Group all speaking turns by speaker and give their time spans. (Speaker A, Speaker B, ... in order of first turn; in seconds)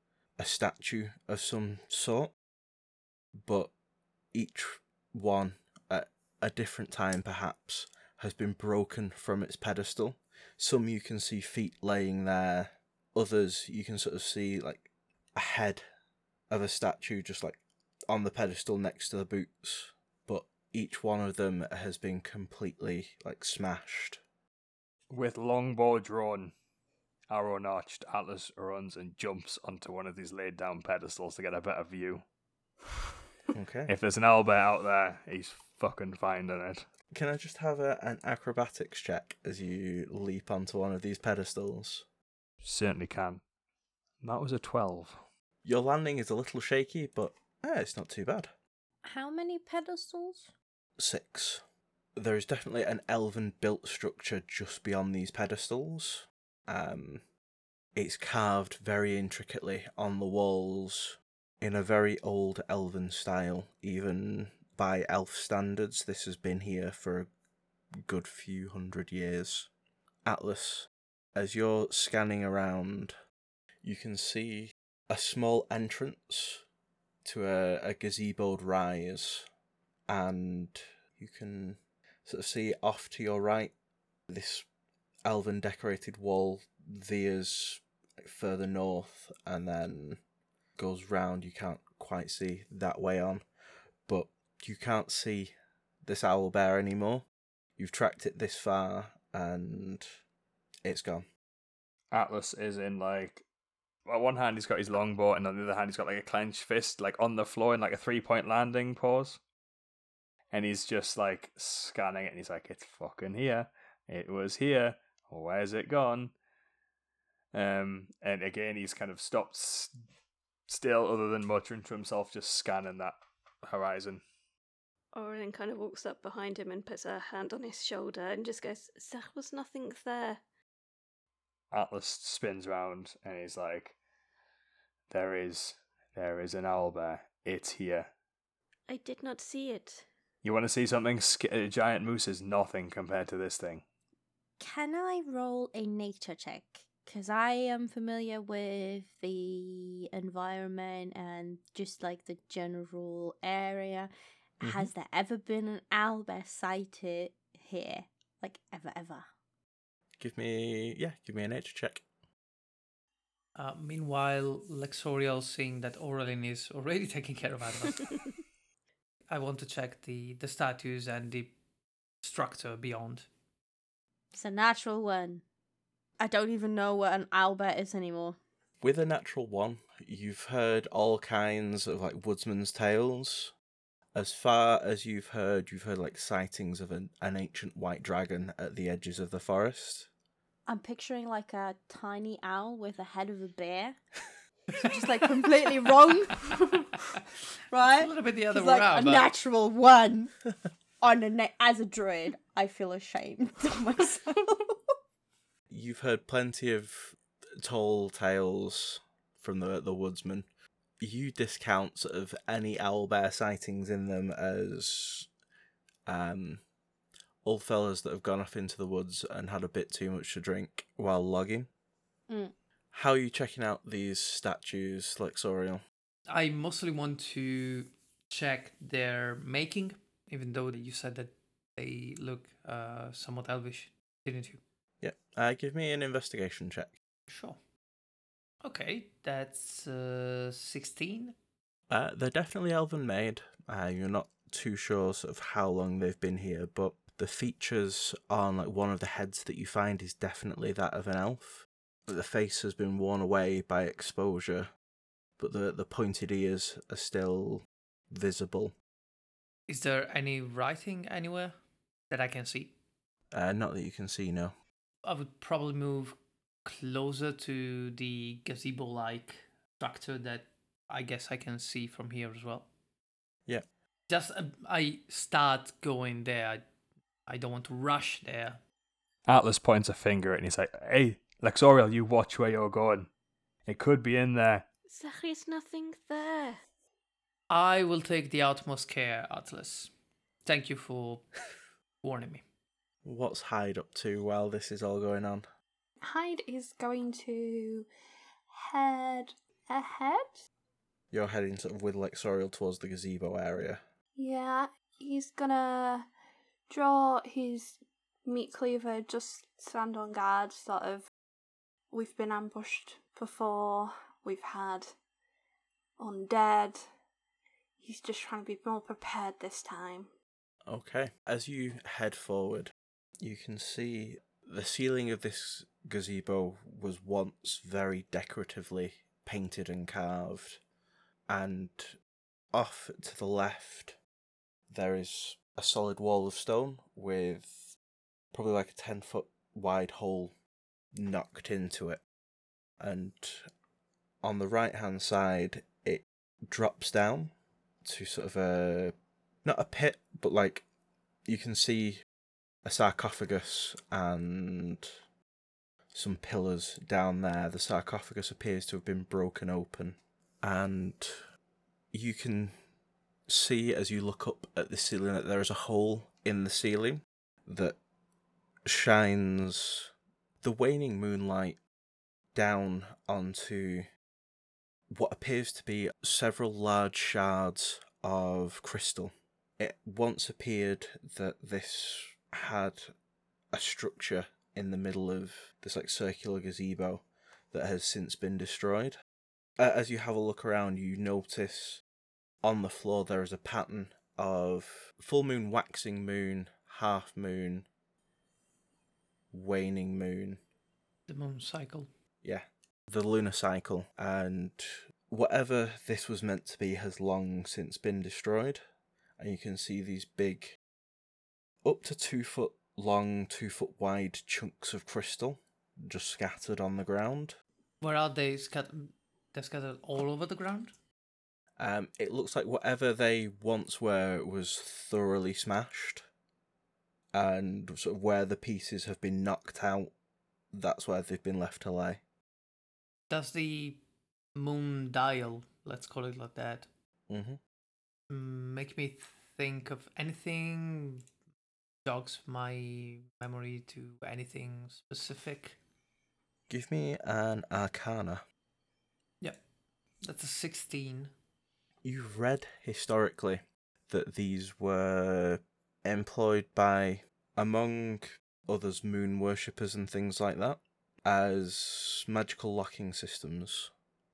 Speaker A: 0.4-2.3, 3.4-3.7, 4.3-15.8, 16.5-24.2, 33.5-33.9, 37.1-42.0, 45.6-48.5, 51.0-51.6, 52.1-57.2, 57.9-67.3, 68.0-69.7, 70.2-73.2, 73.8-76.6, 77.2-79.5, 80.1-83.7, 84.3-84.7, 85.2-90.2, 90.8-93.4, 94.1-95.5, 96.0-97.2, 97.8-100.1, 100.8-101.2, 154.6-154.9, 160.2-162.0, 178.8-183.5, 184.1-190.1, 205.7-210.4, 211.0-215.3, 216.1-216.6, 217.4-221.7, 222.9-225.8, 235.0-236.9, 241.9-254.7, 255.4-258.7, 263.3-264.5, 293.0-295.5, 301.1-303.8, 320.7-330.6, 331.3-332.0, 332.5-334.0, 334.7-337.8, 338.3-340.3, 340.9-342.0, 342.8-343.5, 344.2-347.3, 347.8-350.6, 351.2-352.0, 352.6-354.9, 355.9-361.3, 361.9-362.6, 363.3-367.8, 368.6-371.6, 372.3-373.9, 374.9-382.9, 383.5-389.0, 389.6-391.8, 392.4-397.7, 399.3-400.4, 402.2-408.6, 409.2-410.6, 411.6-417.4, 421.6-426.1, 427.1-429.9, 430.5-432.0, 437.1-437.4, 446.5-448.2, 451.8-463.7
Speaker B: 25.1-26.5, 27.3-32.2, 33.9-36.9, 42.6-43.4, 44.2-45.2, 102.1-103.4, 104.0-109.4, 110.5-116.3, 117.5-119.9, 120.7-124.2, 131.7-133.9, 135.1-138.1, 140.4-143.8, 279.3-283.1, 283.7-284.6
Speaker C: 49.0-50.5, 144.6-159.3, 174.3-175.4, 176.2-178.4, 190.7-194.0, 194.8-196.5, 197.7-200.4, 201.0-204.8, 222.3-222.5
Speaker D: 125.1-130.4, 138.9-140.1, 284.9-286.6
Speaker E: 163.6-168.3, 169.3-171.5, 172.2-173.3, 197.9-199.3, 226.3-234.6, 237.3-237.6, 238.6-241.3, 259.7-261.6, 262.1-262.7, 265.0-272.7, 274.1-276.6, 277.2-278.6, 287.5-289.9, 290.4-291.5, 292.0-292.4, 401.1-401.9, 417.8-420.7, 433.1-433.8, 434.3-436.7, 438.1-441.1, 441.8-445.6, 450.0-451.1
Speaker F: 296.0-297.9, 298.5-300.4, 304.1-306.1, 306.7-311.1, 311.9-314.9, 316.0-316.9, 317.8-320.1